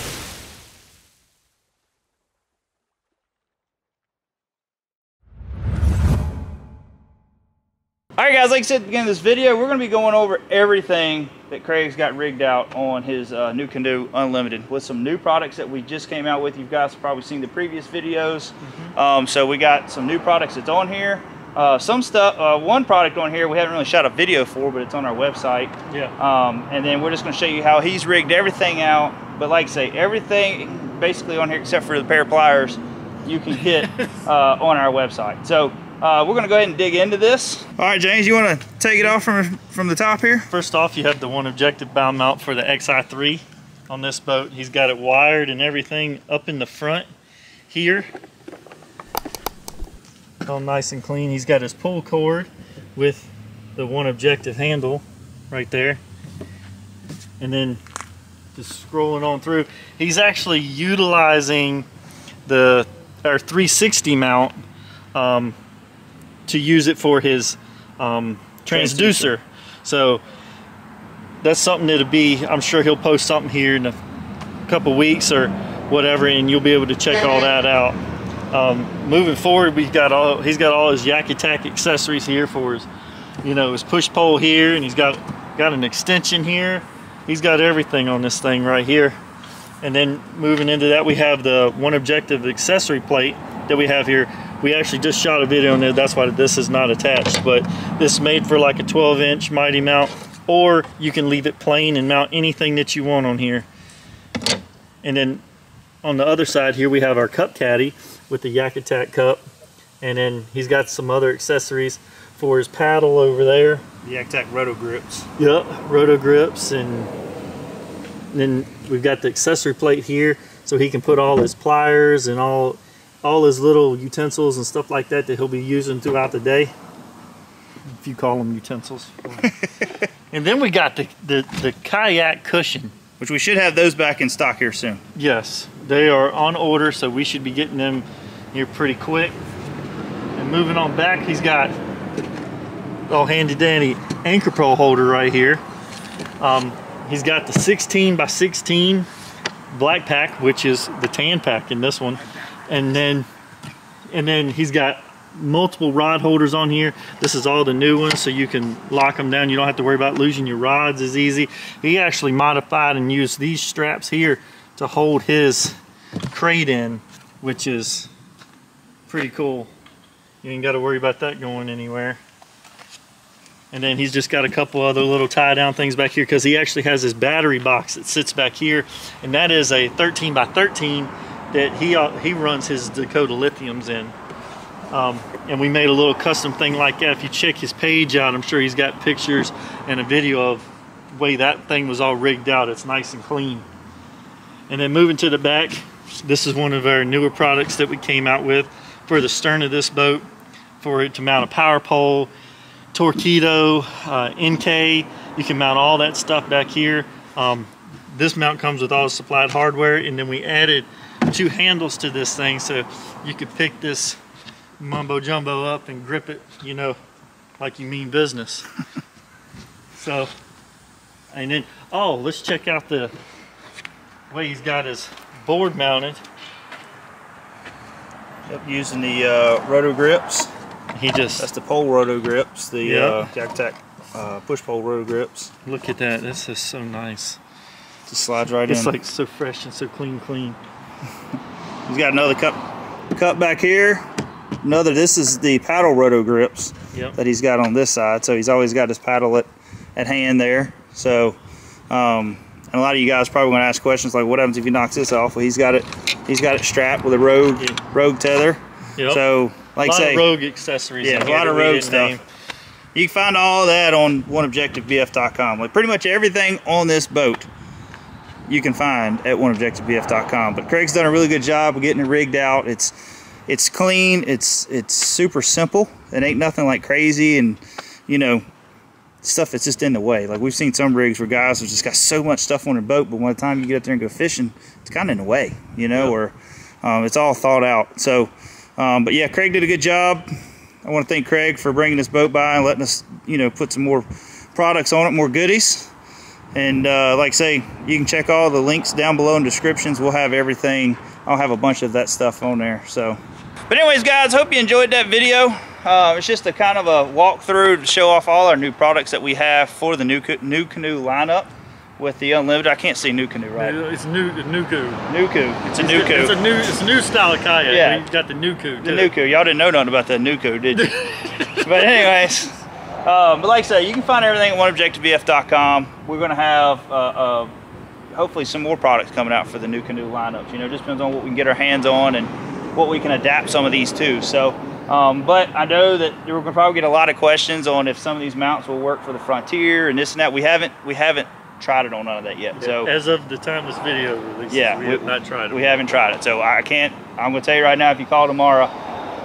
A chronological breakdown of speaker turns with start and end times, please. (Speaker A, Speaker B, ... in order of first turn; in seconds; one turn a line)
Speaker A: 8.2-40.5
Speaker B: 18.6-18.9
Speaker B: 25.9-26.1
Speaker B: 40.5-47.1
Speaker B: 47.7-48.1
Speaker B: 50.4-56.0
Speaker B: 57.4-57.8
Speaker B: 58.5-61.9
Speaker B: 62.5-64.6
Speaker B: 65.1-65.5
Speaker B: 66.5-70.2
Speaker A: 68.7-69.3
Speaker B: 71.4-74.0
Speaker B: 74.7-78.0
Speaker B: 78.5-82.9
Speaker B: 83.4-89.2
Speaker B: 89.8-103.7
Speaker B: 105.0-105.4
Speaker B: 106.0-109.4
Speaker B: 110.0-113.8
Speaker A: 114.0-115.3
Speaker B: 115.4-117.1
Speaker B: 118.3-126.7
Speaker B: 128.0-129.5
Speaker A: 129.6-129.9
Speaker B: 130.3-132.9
Speaker A: 133.2-135.0
Speaker B: 135.2-139.4
Speaker B: 140.4-141.7
Speaker B: 143.1-145.6
Speaker B: 146.4-149.1
Speaker B: 149.7-153.3
Speaker B: 154.1-165.8
Speaker B: 166.3-168.1
Speaker B: 169.1-169.7
Speaker B: 170.4-172.2
Speaker B: 173.7-184.1
Speaker B: 184.9-193.7
Speaker B: 194.7-200.2
Speaker B: 200.8-202.3
Speaker B: 202.9-214.2
Speaker B: 214.8-217.0
Speaker B: 217.6-218.7
Speaker B: 220.0-220.3
Speaker B: 221.3-223.1
Speaker B: 224.3-226.2
Speaker A: 228.5-230.5
Speaker B: 230.9-231.5
Speaker A: 231.4-235.5
Speaker B: 232.8-233.3
Speaker B: 235.7-237.4
Speaker A: 238.1-238.9
Speaker B: 238.7-240.6
Speaker A: 241.8-242.6
Speaker A: 243.1-244.0
Speaker A: 244.6-251.4
Speaker A: 251.9-260.2
Speaker B: 259.8-262.2
Speaker A: 261.0-262.1
Speaker A: 262.9-267.5
Speaker A: 268.5-272.9
Speaker A: 273.5-278.4
Speaker A: 279.2-290.2
Speaker A: 290.8-295.9
Speaker A: 296.5-313.8
Speaker B: 313.6-315.0
Speaker A: 315.1-316.4
Speaker B: 315.7-319.1
Speaker A: 317.6-318.0
Speaker A: 318.8-320.9
Speaker B: 320.7-322.2
Speaker A: 321.6-327.5
Speaker A: 328.1-342.9
Speaker B: 342.6-345.8
Speaker A: 344.5-348.7